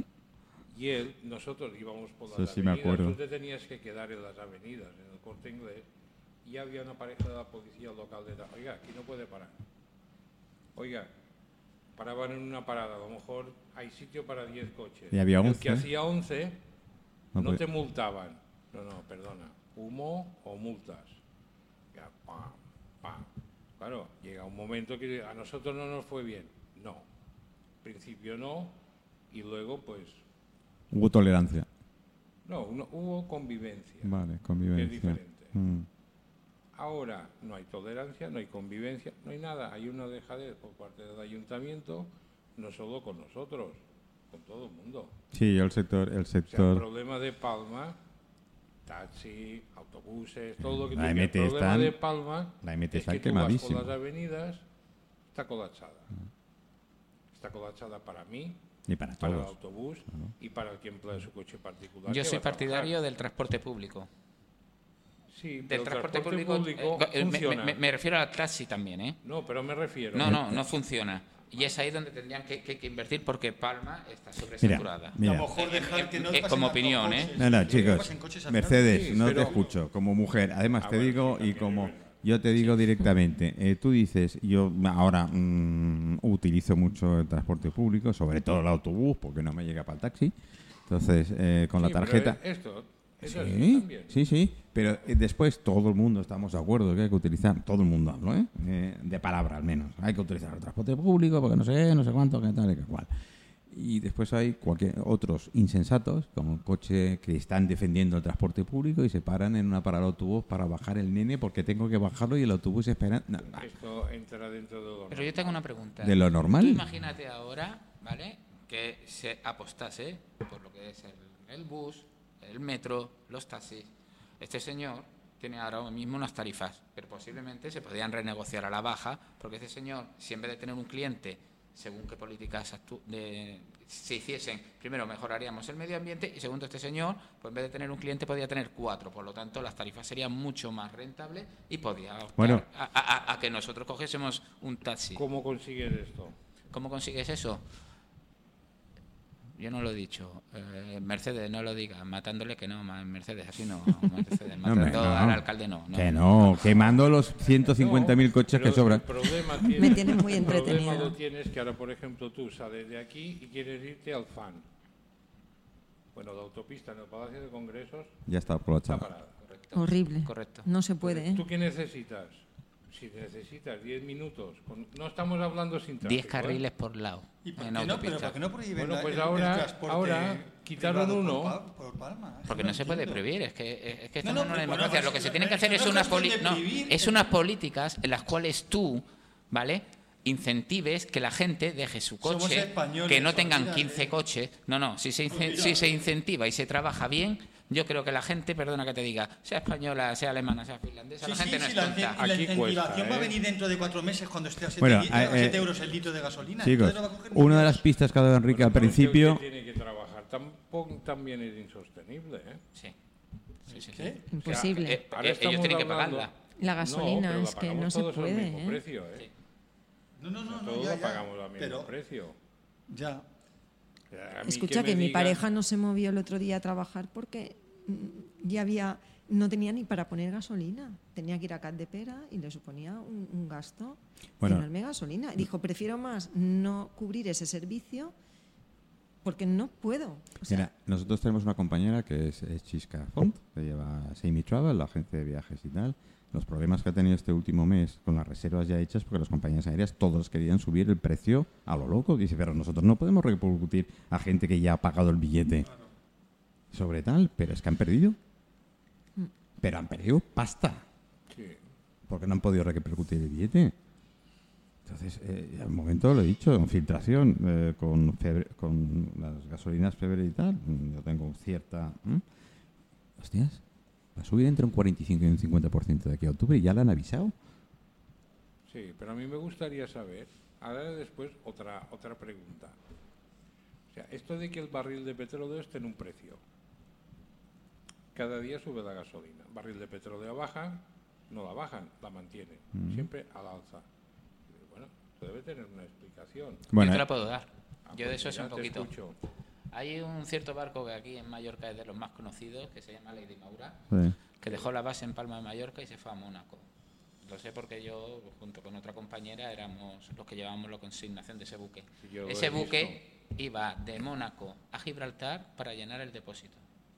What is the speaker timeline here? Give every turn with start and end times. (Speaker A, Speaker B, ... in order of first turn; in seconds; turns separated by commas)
Speaker A: 0.7-5.9, Speaker B: 2.3-3.2, Speaker A: 6.4-9.5, Speaker A: 10.8-11.1, Speaker A: 12.0-16.6, Speaker B: 15.1-15.9, Speaker B: 17.3-17.6, Speaker A: 17.4-21.2, Speaker A: 21.9-23.3, Speaker A: 23.8-27.1, Speaker A: 27.8-28.8, Speaker A: 29.3-30.2, Speaker B: 30.9-31.7, Speaker A: 32.5-34.1, Speaker B: 34.0-35.9, Speaker A: 34.8-35.5, Speaker A: 36.7-45.1, Speaker B: 45.3-46.9, Speaker A: 46.5-48.0, Speaker A: 48.9-54.6, Speaker B: 50.6-52.0, Speaker B: 52.6-53.9, Speaker A: 55.3-56.1, Speaker A: 57.3-58.6, Speaker B: 58.9-59.5, Speaker A: 59.2-63.0, Speaker C: 62.1-64.1, Speaker A: 65.3-67.8, Speaker C: 65.7-69.2, Speaker A: 69.2-70.5, Speaker C: 70.1-77.4, Speaker B: 70.2-70.6, Speaker B: 74.6-75.5, Speaker D: 75.2-79.7, Speaker B: 77.4-90.3, Speaker A: 78.9-79.7, Speaker A: 80.8-82.2, Speaker B: 90.9-92.4, Speaker A: 91.8-94.2, Speaker B: 93.2-103.1, Speaker B: 103.7-113.7, Speaker A: 113.5-115.6, Speaker C: 115.1-145.2, Speaker B: 116.0-116.8, Speaker B: 142.4-142.7, Speaker A: 145.2-146.3, Speaker C: 146.7-147.6, Speaker C: 149.6-157.0, Speaker B: 154.6-159.7, Speaker A: 157.7-164.6, Speaker E: 159.8-161.2, Speaker A: 166.1-168.2, Speaker B: 168.3-169.1, Speaker A: 168.9-169.4, Speaker C: 169.4-170.7, Speaker E: 169.8-171.5, Speaker A: 171.0-176.6, Speaker C: 176.0-178.4, Speaker D: 177.4-183.2, Speaker A: 178.8-181.6, Speaker C: 182.5-202.2, Speaker D: 184.2-187.3, Speaker D: 192.2-194.1, Speaker D: 195.3-195.9, Speaker D: 201.2-207.8, Speaker A: 202.2-203.4, Speaker B: 204.8-205.7, Speaker B: 206.6-209.4, Speaker A: 208.5-212.6, Speaker C: 213.7-216.3, Speaker D: 213.7-214.2, Speaker E: 214.3-215.0, Speaker A: 214.4-219.3, Speaker E: 216.6-218.8, Speaker D: 220.2-221.9, Speaker A: 220.5-222.4, Speaker D: 222.9-223.2, Speaker A: 224.1-225.4, Speaker E: 224.4-238.1, Speaker B: 234.4-234.7, Speaker E: 239.2-240.7, Speaker B: 240.5-255.7, Speaker B: 256.7-258.2, Speaker B: 259.6-260.8, Speaker A: 261.3-261.6, Speaker B: 262.1-263.8, Speaker B: 264.9-272.2, Speaker B: 273.2-273.6, Speaker B: 274.2-277.3, Speaker A: 278.7-282.8, Speaker A: 283.9-286.4, Speaker A: 288.1-293.8, Speaker B: 292.8-293.1, Speaker A: 294.5-296.7, Speaker B: 296.7-297.1, Speaker C: 296.7-298.9, Speaker A: 297.9-299.2, Speaker C: 299.7-303.8, Speaker B: 303.9-304.2, Speaker C: 304.4-306.7, Speaker C: 307.2-316.6, Speaker A: 312.0-313.0